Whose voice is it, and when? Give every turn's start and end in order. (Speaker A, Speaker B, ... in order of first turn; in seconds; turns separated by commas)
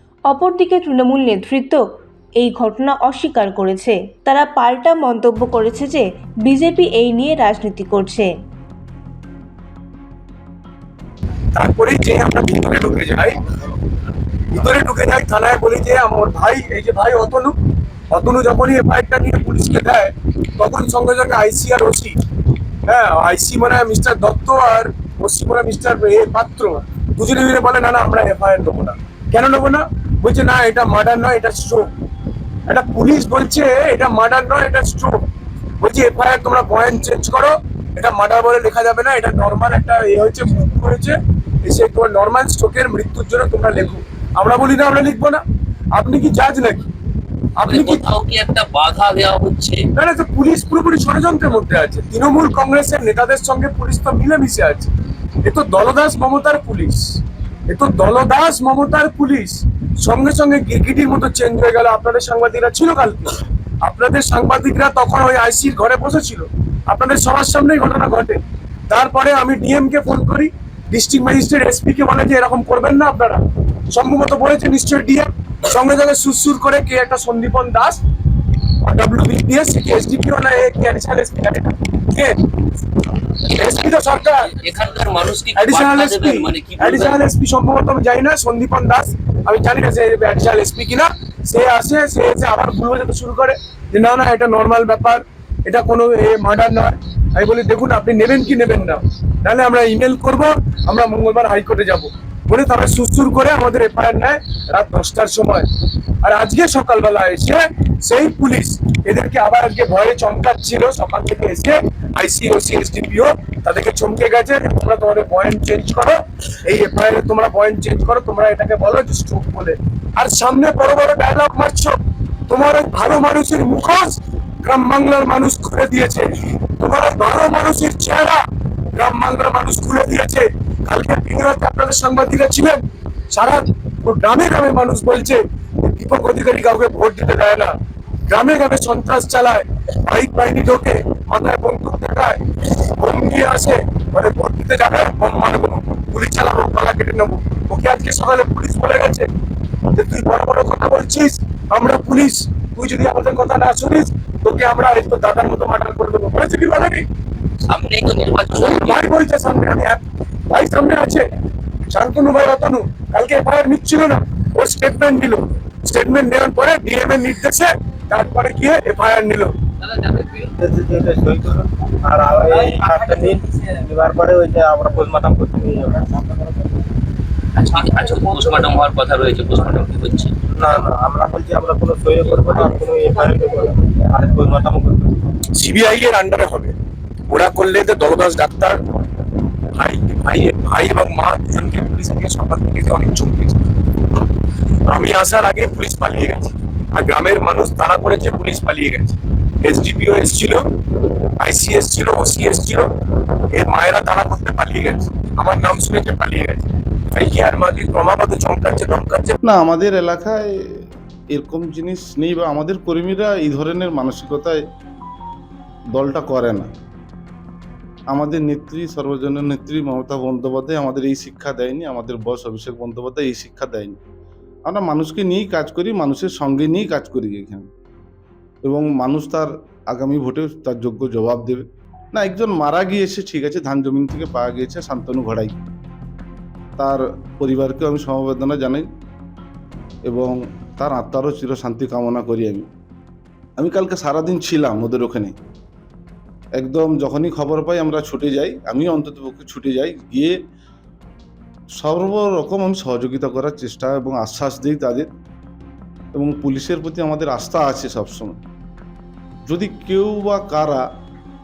Speaker A: 0.3-1.8, Speaker A: 2.4-8.3, Speaker B: 11.5-13.4, Speaker B: 14.5-17.6, Speaker B: 18.1-22.2, Speaker B: 22.9-31.9, Speaker B: 32.7-35.2, Speaker B: 35.8-45.4, Speaker B: 45.9-46.8, Speaker B: 47.6-48.0, Speaker C: 47.7-49.9, Speaker B: 50.0-54.9, Speaker B: 55.4-78.0, Speaker B: 78.8-82.3, Speaker B: 83.0-84.5, Speaker C: 84.5-87.2, Speaker B: 85.5-105.7, Speaker B: 106.2-128.4, Speaker B: 128.9-132.8, Speaker B: 133.3-137.7, Speaker B: 138.3-149.3, Speaker B: 149.9-157.1, Speaker C: 157.7-159.0, Speaker B: 158.6-161.3, Speaker B: 161.9-169.5, Speaker C: 169.9-170.3, Speaker D: 170.5-176.7, Speaker C: 177.6-180.3, Speaker D: 180.5-185.2, Speaker B: 185.5-186.8, Speaker B: 187.3-188.8, Speaker B: 189.8-194.3, Speaker B: 194.9-209.4, Speaker E: 209.4-210.5, Speaker E: 211.3-214.6, Speaker E: 215.9-216.7, Speaker E: 218.1-224.0, Speaker E: 224.7-227.7, Speaker E: 228.6-235.6, Speaker E: 236.8-238.9, Speaker E: 240.1-242.7, Speaker E: 243.6-245.3, Speaker E: 246.6-250.3, Speaker E: 251.8-255.1, Speaker E: 256.1-258.4, Speaker E: 259.5-260.9